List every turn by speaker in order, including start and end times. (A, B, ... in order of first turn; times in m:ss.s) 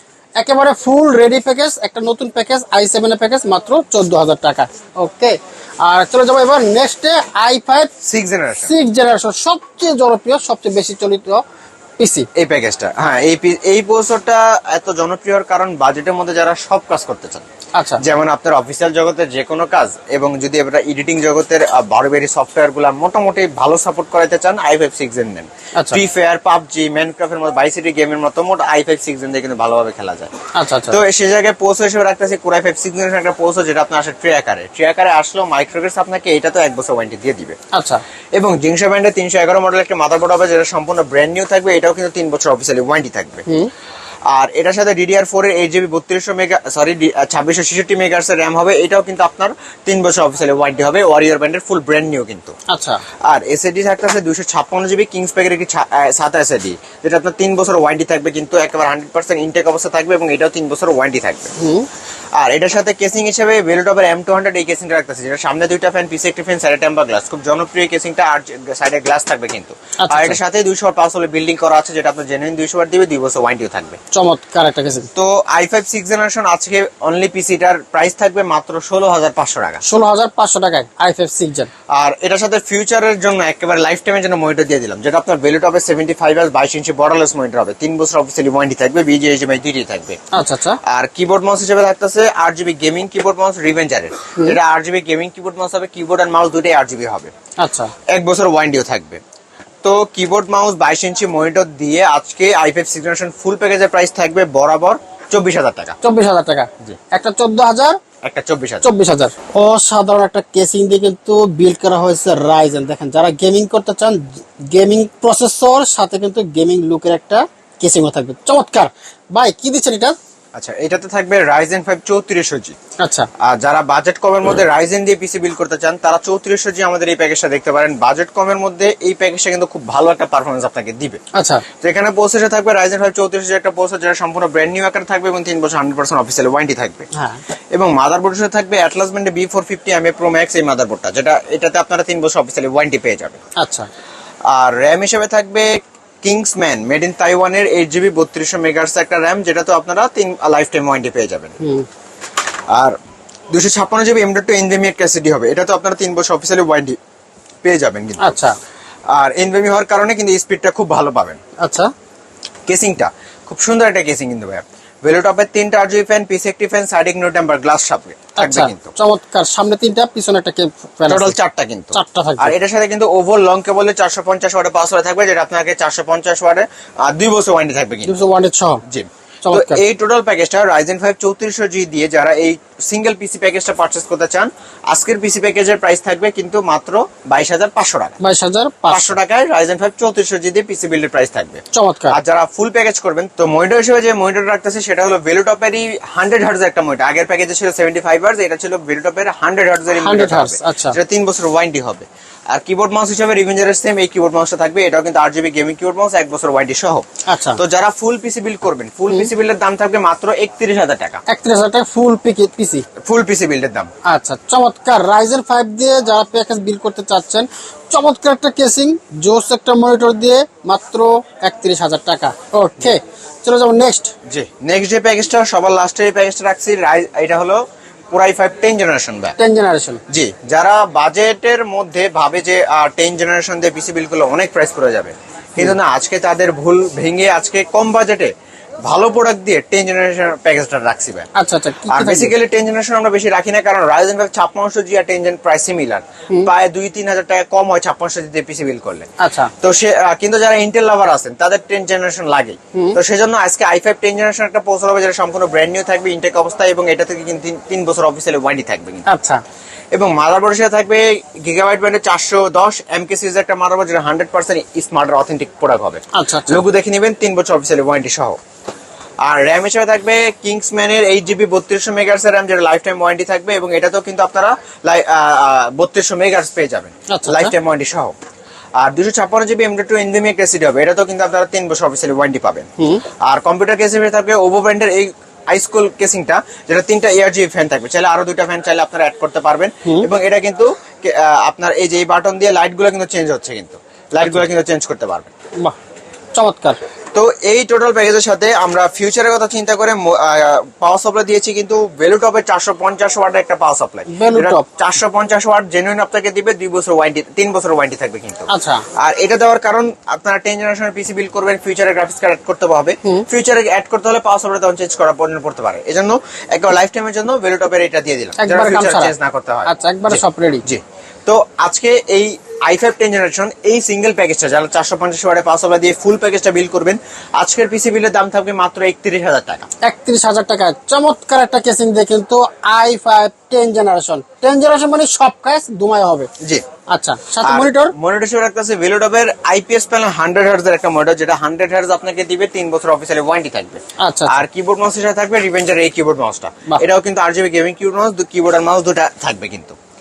0:00.4-0:07.9 A
0:08.0-0:08.7 B
0:08.6-0:11.4 A
0:12.0-0:12.3 A
0:12.4-0:17.5 B
0:18.0-0:30.3 B
0:30.5-0:31.0 A
0:30.9-0:37.6 B
0:37.7-0:38.0 A
0:38.4-0:43.4 B
0:44.3-0:52.5 B
0:52.7-0:53.0 A
0:53.3-1:01.5 B
1:01.6-1:01.9 A
1:02.4-1:14.0 B
1:10.0-1:10.4 A
1:14.1-1:15.1 A
1:15.1-1:19.8 B
1:19.8-1:21.7 A
1:21.9-1:30.2 B
1:30.3-1:30.8 A
1:30.8-1:37.3 B
1:37.6-1:37.9 A
1:38.1-1:39.2 B
1:39.8-1:46.0 B
1:46.0-1:48.0 A
1:48.2-1:48.9 B
1:48.8-2:00.2 A
2:00.5-2:02.8 B
2:03.0-2:03.3 A
2:03.4-2:11.2 B
2:11.3-2:11.6 A
2:11.8-2:17.1 B
2:17.1-2:17.4 A
2:17.7-2:23.4 B
2:23.6-2:23.9 A
2:24.5-2:31.6 B
2:31.6-2:31.8 A
2:33.5-2:37.0 B
2:37.6-2:38.3 B
2:38.2-2:38.5 A
2:39.1-2:41.4 B
2:41.6-2:41.9 A
2:42.7-2:48.9 B
2:48.4-2:51.3 A
2:51.1-2:58.1 B
2:51.9-2:52.5 A
2:58.0-2:58.8 A
2:58.9-3:08.2 B
2:59.4-2:59.8 A
3:08.2-3:09.2 A
3:08.9-3:31.2 B
3:11.7-3:12.2 A
3:19.9-3:21.0 A
3:27.3-3:27.6 A
3:31.3-3:32.8 A
3:33.0-3:33.9 B
3:34.0-3:44.1 A
3:44.2-3:47.6 B
3:48.1-3:49.4 B
3:49.4-3:50.0 A
3:50.1-3:58.3 B
3:58.8-4:01.3 B
4:01.4-4:02.3 A
4:01.9-4:09.1 B
4:09.2-4:09.5 A
4:09.6-4:19.0 B
4:19.0-4:19.4 A
4:19.9-4:28.4 B
4:26.1-4:26.6 A
4:29.2-4:38.1 B
4:37.1-4:37.5 A
4:38.8-4:42.7 B
4:43.3-4:55.3 B
4:56.3-4:56.8 A
4:57.1-5:29.7 B
5:04.1-5:04.6 A
5:08.5-5:08.8 A
5:18.4-5:19.1 A
5:19.7-5:20.6 A
5:29.8-5:36.3 A
5:36.4-5:36.6 B
5:36.9-5:37.9 A
5:37.4-5:49.8 B
5:44.0-5:44.4 A